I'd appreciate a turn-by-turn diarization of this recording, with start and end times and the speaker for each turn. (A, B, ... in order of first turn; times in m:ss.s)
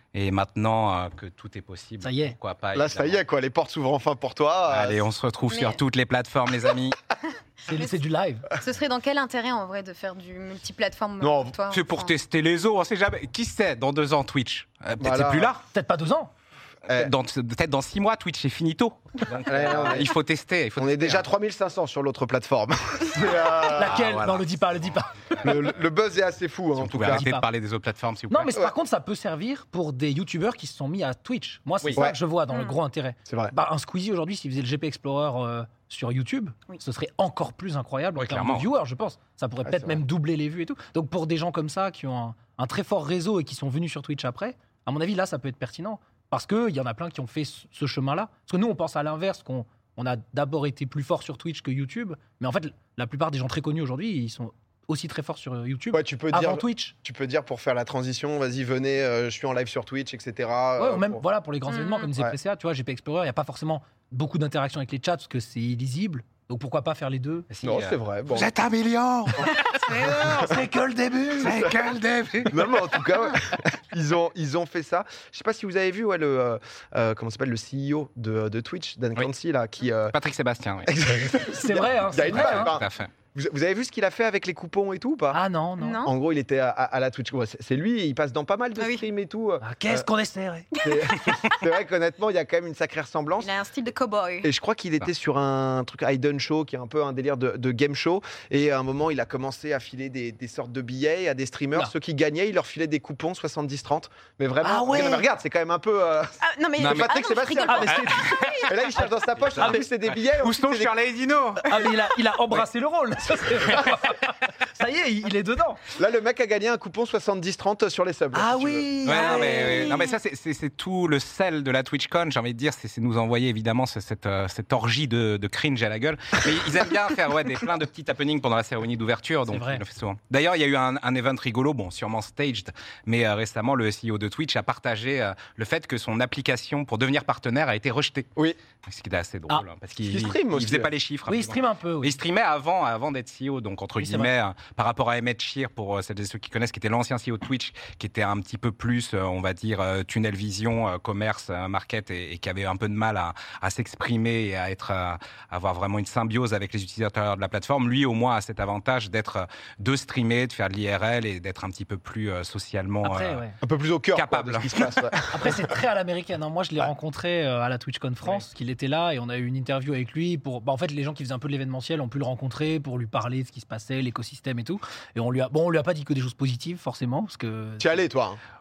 0:00.1-0:03.2 A
0:02.0-0:02.4 B
0:02.7-0:05.1 C
0:04.7-0:07.0 A
0:05.5-0:05.8 D
0:07.7-0:08.5 B
0:07.7-0:08.0 D
0:08.6-0:12.2 D
0:11.2-0:11.6 C
0:11.7-0:15.6 A
0:15.0-0:15.5 C
0:15.7-0:16.3 B
0:16.9-0:17.1 C
0:16.9-0:21.3 A
0:19.5-0:20.1 C
0:20.8-0:24.0 C
0:23.1-0:25.5 B
0:23.8-0:25.0 A
0:25.4-0:27.2 C
0:26.8-0:28.5 A
0:27.1-0:27.4 B
0:28.3-0:56.9 B
0:32.5-0:32.8 D
0:33.3-0:33.5 C
0:38.2-0:38.7 A
0:39.6-0:40.0 C
0:55.9-1:01.2 C
1:00.8-1:07.5 B
1:01.7-1:02.1 D
1:07.5-1:10.3 A
1:07.6-1:08.5 C
1:09.7-1:10.2 D
1:10.1-1:11.7 B
1:10.2-1:10.6 C
1:11.4-1:12.6 A
1:12.5-1:20.2 C
1:20.1-1:20.9 A
1:20.8-1:25.4 C
1:21.5-1:22.8 B
1:22.4-1:23.1 A
1:25.3-1:26.0 B
1:25.8-1:26.1 D
1:26.0-1:30.1 C
1:28.8-1:29.1 D
1:29.6-1:30.7 B
1:30.8-1:31.1 D
1:30.8-1:33.5 C
1:33.4-1:34.5 D
1:34.4-1:48.0 C
1:44.6-1:45.3 B
1:46.4-1:48.8 D
1:46.8-1:47.2 A
1:47.6-1:49.8 B
1:47.9-1:48.7 A
1:48.6-1:51.0 C
1:49.4-1:51.9 A
1:51.6-1:55.8 B
1:56.0-1:59.8 C
1:58.3-2:00.0 B
1:59.0-2:18.3 A
1:59.3-2:00.0 D
2:09.5-2:09.8 B
2:18.8-2:43.4 A
2:20.0-2:20.9 C
2:21.3-2:22.1 B
2:24.0-2:24.3 B
2:43.0-2:43.6 B
2:43.6-2:45.7 C
2:44.1-2:45.0 A
2:45.3-2:58.0 B
2:57.8-2:58.4 C